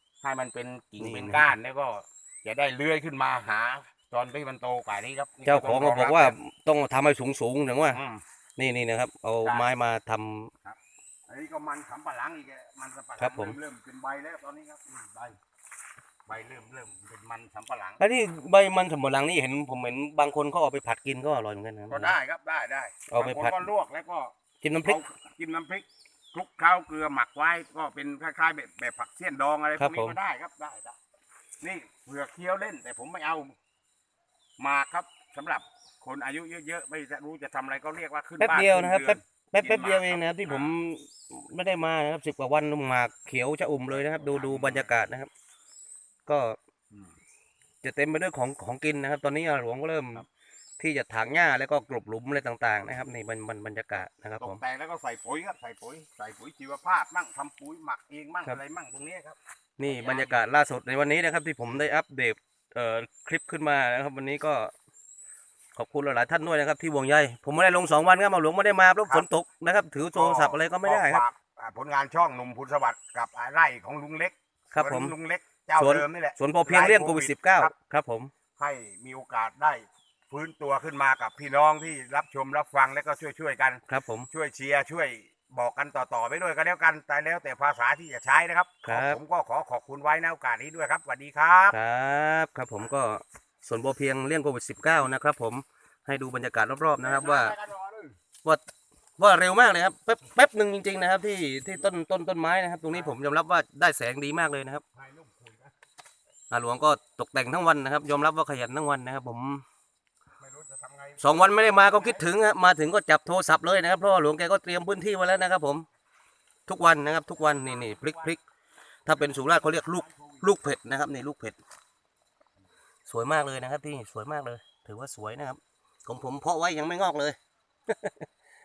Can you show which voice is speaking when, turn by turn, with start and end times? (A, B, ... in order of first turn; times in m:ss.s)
0:00.2-0:06.4 A
0:01.0-0:01.5 B
0:05.4-0:08.0 B
0:07.9-0:08.2 A
0:08.6-0:10.5 B
0:09.4-0:09.7 A
0:10.6-0:15.4 A
0:13.2-0:13.6 B
0:16.3-0:18.0 A
0:18.0-0:22.2 B
0:21.9-0:24.3 A
0:23.1-0:23.6 B
0:24.6-0:25.0 B
0:24.8-0:31.0 A
0:29.8-0:30.2 B
0:31.6-0:33.5 A
0:34.6-0:40.8 A
0:38.4-0:45.3 B
0:43.9-0:44.9 A
0:46.2-0:46.6 B
0:47.8-0:50.2 B
0:50.8-0:54.6 B
0:54.4-1:00.4 A
0:59.8-1:04.7 B
1:05.7-1:11.2 B
1:10.1-1:17.7 A
1:14.7-1:15.1 B
1:15.8-1:18.3 B
1:18.6-1:31.8 A
1:23.9-1:24.3 B
1:28.8-1:29.2 B
1:31.7-1:37.5 B
1:37.0-1:38.2 A
1:39.2-1:44.8 B
1:42.9-1:43.2 A
1:44.9-1:45.7 A
1:46.5-1:49.6 B
1:50.4-1:52.3 A
1:51.2-1:55.9 B
1:56.7-1:58.4 B
1:57.3-1:58.4 A
1:59.0-2:01.6 B
1:59.2-2:00.5 A
2:03.1-2:07.4 B
2:07.9-2:08.3 B